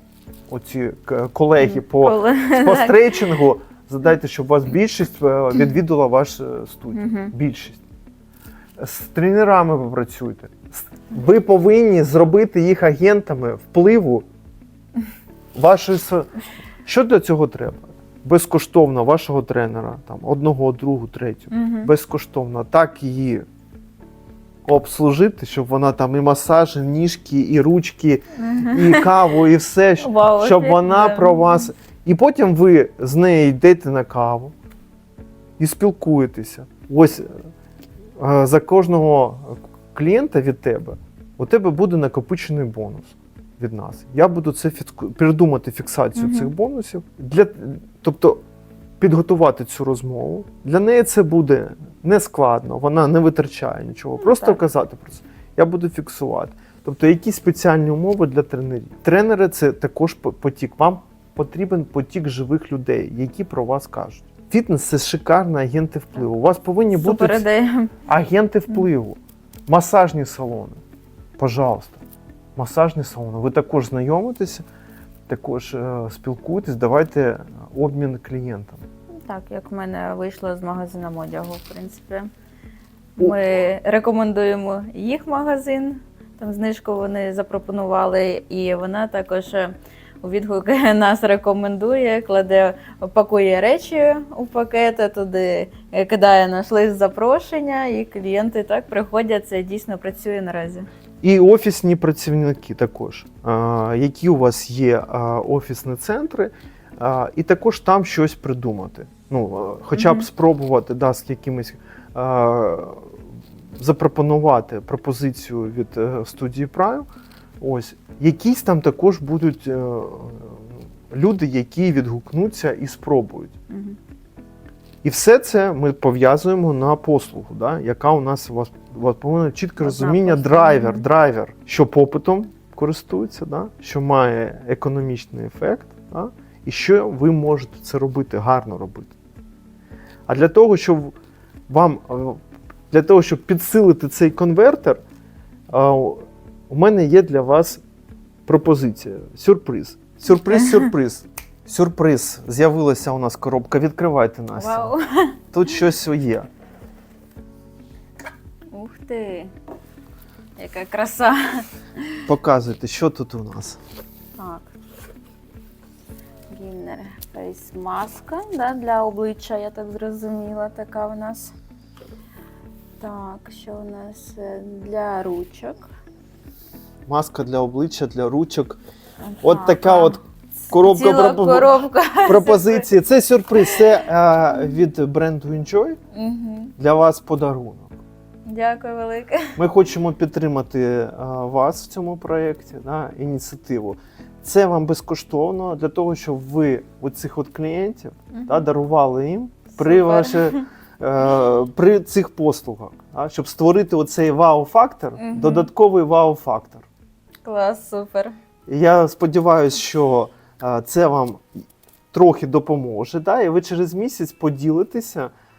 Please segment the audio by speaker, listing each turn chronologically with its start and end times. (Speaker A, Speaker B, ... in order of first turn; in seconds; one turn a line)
Speaker A: 0.5-7.8
Speaker B: 1.6-3.4
Speaker B: 6.9-7.3
Speaker A: 8.8-14.2
Speaker A: 15.5-16.3
Speaker A: 16.8-23.4
Speaker B: 21.5-21.9
Speaker A: 24.6-34.5
Speaker B: 28.4-29.1
Speaker B: 30.0-31.6
Speaker A: 35.6-37.5
Speaker A: 38.2-48.4
Speaker B: 46.1-46.5
Speaker A: 49.0-67.4
Speaker B: 54.2-54.6
Speaker B: 66.9-67.9
Speaker A: 68.0-70.8
Speaker A: 71.4-72.0
Speaker A: 72.5-74.6
Speaker A: 75.3-78.8
Speaker B: 79.2-82.3
Speaker B: 83.2-100.9
Speaker A: 101.2-113.2
Speaker B: 109.9-110.2
Speaker A: 113.8-117.1
Speaker A: 117.6-123.5
Speaker B: 123.7-124.0
Speaker A: 125.0-139.1
Speaker B: 129.8-131.1
Speaker A: 140.3-141.2
Speaker A: 141.7-145.0
Speaker A: 145.7-147.8
Speaker A: 148.4-154.9
Speaker B: 150.3-150.9
Speaker B: 154.6-155.4
Speaker A: 155.5-156.5
Speaker B: 158.7-159.5
Speaker B: 160.6-162.2
Speaker A: 162.2-163.8
Speaker B: 164.4-164.7
Speaker B: 166.5-171.5
Speaker B: 173.0-175.9
Speaker A: 177.1-178.8
Speaker B: 179.2-182.8
Speaker A: 179.4-186.0
Speaker B: 183.6-183.8
Speaker B: 186.1-186.7
Speaker A: 186.8-187.9
Speaker B: 188.4-189.6
Speaker A: 189.6-206.8
Speaker B: 198.3-198.6
Speaker B: 199.7-200.6
Speaker B: 205.2-205.7
Speaker B: 207.4-208.3
Speaker A: 208.7-215.3